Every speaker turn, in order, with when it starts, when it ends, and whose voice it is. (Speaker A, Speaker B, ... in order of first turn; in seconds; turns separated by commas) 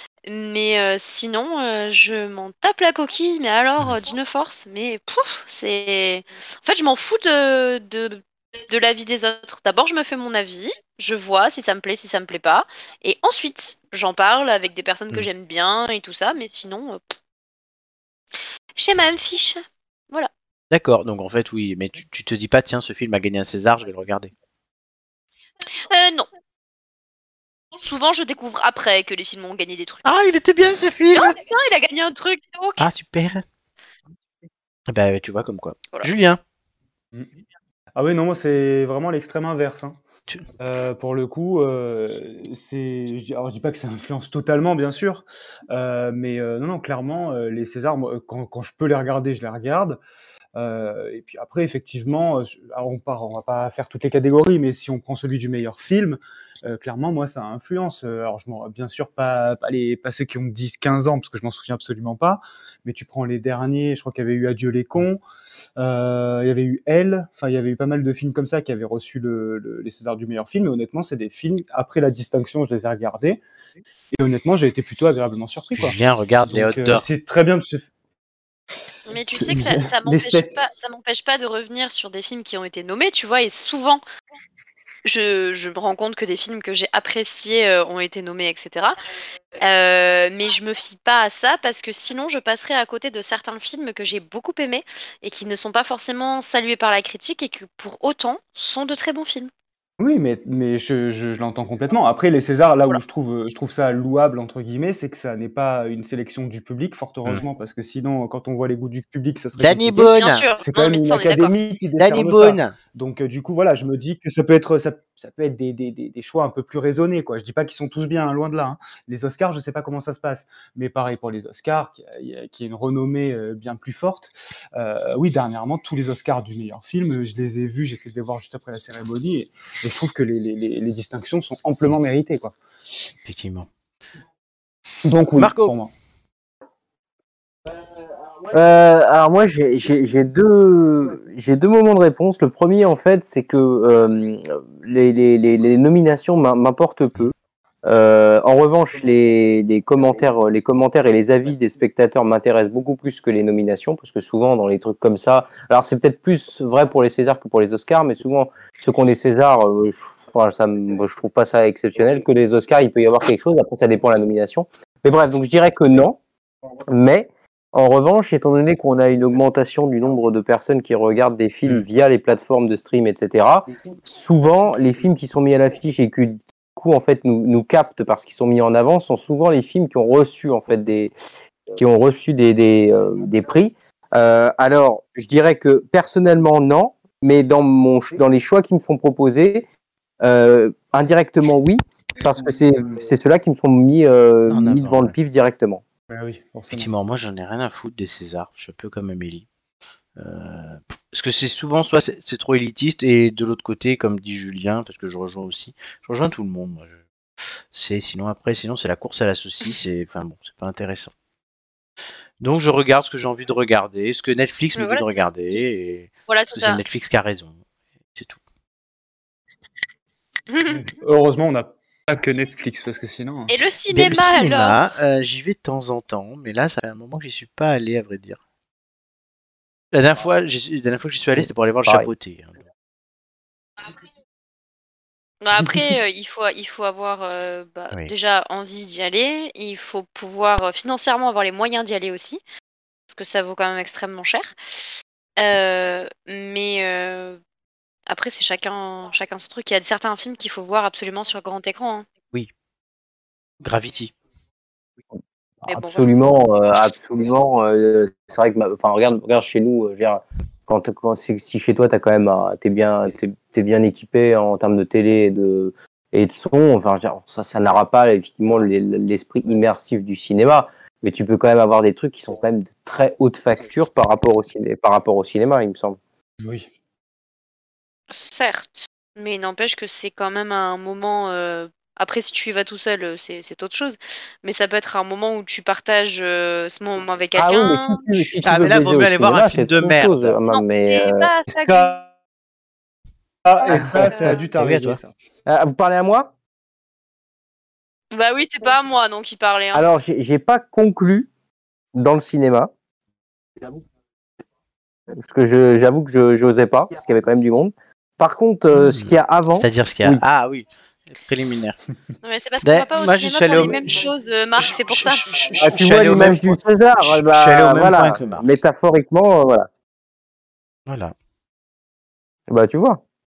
Speaker A: 0.2-17.1, Speaker A: 18.8-20.3, Speaker B: 20.7-24.3, Speaker A: 25.9-26.3, Speaker A: 27.8-30.0, Speaker B: 30.1-31.4, Speaker A: 31.1-32.9, Speaker B: 32.8-33.4, Speaker B: 34.9-36.4, Speaker C: 38.0-40.0, Speaker C: 40.6-50.0, Speaker C: 50.6-65.2, Speaker C: 65.8-73.4, Speaker C: 74.2-77.9, Speaker B: 75.7-77.1, Speaker A: 79.1-84.0, Speaker C: 79.2-80.6, Speaker A: 85.0-89.0, Speaker A: 89.6-99.5, Speaker C: 100.0-132.6, Speaker B: 109.6-110.5, Speaker A: 110.1-111.5, Speaker B: 112.0-112.8, Speaker B: 133.3-133.7, Speaker C: 135.0-135.9, Speaker B: 135.4-135.8, Speaker D: 138.5-166.2, Speaker D: 166.9-181.1, Speaker D: 181.7-189.7, Speaker D: 190.2-195.8, Speaker B: 194.5-195.2, Speaker C: 196.1-196.9, Speaker B: 196.7-199.5, Speaker B: 200.2-206.9, Speaker B: 207.7-211.1, Speaker B: 212.4-217.6, Speaker A: 214.8-215.6, Speaker A: 216.3-216.8, Speaker A: 220.5-220.8, Speaker C: 220.7-223.5, Speaker A: 223.5-224.8, Speaker B: 223.9-228.4, Speaker B: 229.9-232.5, Speaker D: 231.4-232.1, Speaker A: 235.4-242.4, Speaker A: 243.1-244.5, Speaker A: 245.4-247.4, Speaker A: 248.1-252.1, Speaker B: 253.6-254.1, Speaker D: 255.7-276.0, Speaker A: 255.7-256.1, Speaker C: 276.4-276.7, Speaker A: 278.1-288.3, Speaker D: 287.4-291.3, Speaker B: 288.4-290.4, Speaker A: 290.5-292.0, Speaker C: 291.5-292.1, Speaker C: 293.4-295.1, Speaker D: 293.6-296.3, Speaker A: 298.1-299.9, Speaker D: 299.7-301.3, Speaker D: 301.9-302.7, Speaker D: 305.2-310.2, Speaker B: 308.7-311.8, Speaker A: 312.2-315.4, Speaker B: 312.6-314.1, Speaker B: 314.6-318.5, Speaker D: 315.6-319.7, Speaker B: 320.9-321.1, Speaker D: 322.5-323.0